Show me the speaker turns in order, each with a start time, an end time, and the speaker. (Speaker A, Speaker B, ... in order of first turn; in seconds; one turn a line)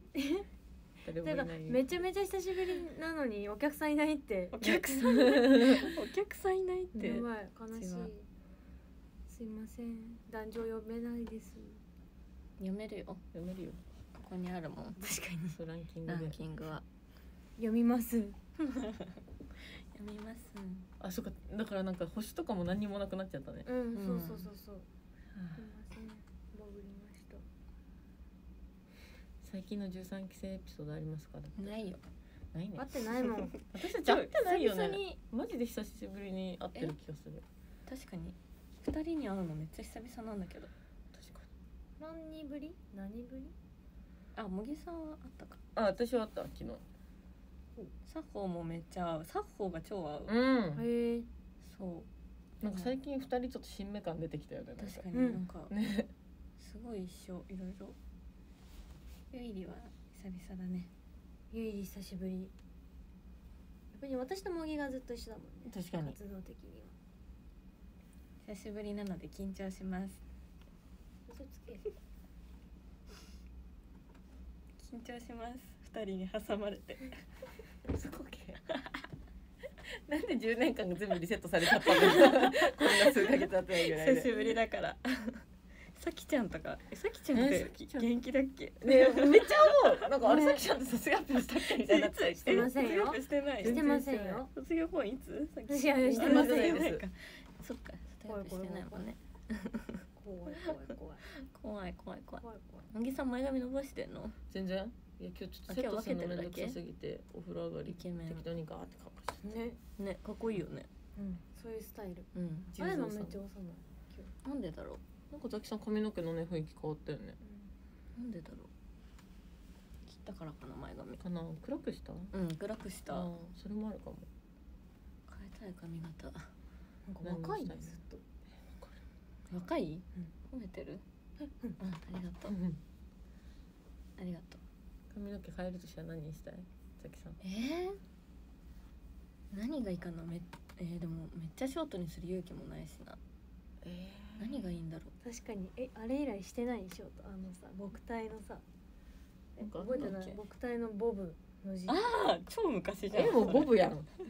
Speaker A: 0.1-0.5
Speaker B: 1.0-1.8
Speaker A: 1.2-4.9
Speaker C: 4.5-8.1
Speaker B: 5.0-5.9
Speaker A: 7.0-8.3
Speaker A: 9.3-11.8
Speaker C: 12.6-13.2
Speaker B: 13.3-13.8
Speaker C: 14.1-15.0
Speaker A: 15.0-15.6
Speaker B: 15.6-16.4
Speaker C: 16.1-16.8
Speaker A: 17.6-18.4
Speaker C: 18.6-19.1
Speaker C: 19.9-20.9
Speaker B: 21.0-23.7
Speaker A: 23.7-24.9
Speaker C: 24.0-24.5
Speaker A: 25.6-27.4
Speaker B: 29.4-31.8
Speaker C: 31.6-32.0
Speaker B: 32.5-32.9
Speaker A: 32.8-33.5
Speaker C: 33.4-35.2
Speaker B: 33.7-37.4
Speaker C: 37.9-40.7
Speaker B: 41.1-41.5
Speaker A: 42.0-43.5
Speaker C: 44.4-45.6
Speaker B: 45.8-46.8
Speaker C: 48.1-50.3
Speaker B: 50.3-50.8
Speaker A: 50.8-51.3
Speaker C: 51.6-52.1
Speaker C: 52.6-52.9
Speaker B: 52.6-55.1
Speaker C: 54.8-55.7
Speaker A: 55.1-55.4
Speaker B: 55.7-56.1
Speaker C: 56.6-58.0
Speaker C: 59.3-60.9
Speaker A: 61.5-62.5
Speaker A: 63.9-66.9
Speaker B: 65.7-66.2
Speaker C: 68.4-70.2
Speaker A: 71.3-71.8
Speaker C: 74.8-77.2
Speaker B: 77.9-78.6
Speaker B: 79.9-84.6
Speaker C: 81.8-89.8
Speaker B: 87.3-88.1
Speaker B: 88.8-92.7
Speaker A: 90.2-90.6
Speaker C: 91.6-93.9
Speaker A: 92.4-94.5
Speaker B: 93.6-94.4
Speaker C: 94.5-100.0
Speaker A: 95.7-96.9
Speaker B: 96.2-97.0
Speaker A: 98.3-99.1
Speaker A: 100.2-101.3
Speaker C: 101.4-104.4
Speaker A: 102.4-102.8
Speaker B: 104.5-109.6
Speaker C: 105.7-106.8
Speaker C: 107.9-108.5
Speaker A: 109.4-109.8
Speaker C: 110.0-110.9
Speaker A: 111.2-114.3
Speaker C: 112.3-112.7
Speaker B: 112.7-113.4
Speaker C: 114.4-115.0
Speaker B: 115.3-117.4
Speaker A: 117.4-117.7
Speaker C: 118.2-118.7
Speaker C: 120.1-121.2
Speaker B: 121.2-122.3
Speaker C: 122.3-123.3
Speaker B: 123.1-124.3
Speaker C: 125.3-126.5
Speaker A: 127.1-128.1
Speaker B: 127.2-129.0
Speaker C: 129.5-131.0
Speaker C: 131.8-132.6
Speaker B: 132.5-132.8
Speaker C: 134.2-134.6
Speaker B: 135.1-137.4
Speaker C: 137.4-138.0
Speaker C: 139.5-143.2
Speaker B: 143.8-144.7
Speaker C: 144.4-145.1
Speaker A: 145.2-148.6
Speaker B: 149.6-150.2
Speaker A: 149.6-152.0
Speaker C: 149.9-150.4
Speaker C: 151.9-153.7
Speaker B: 153.1-154.1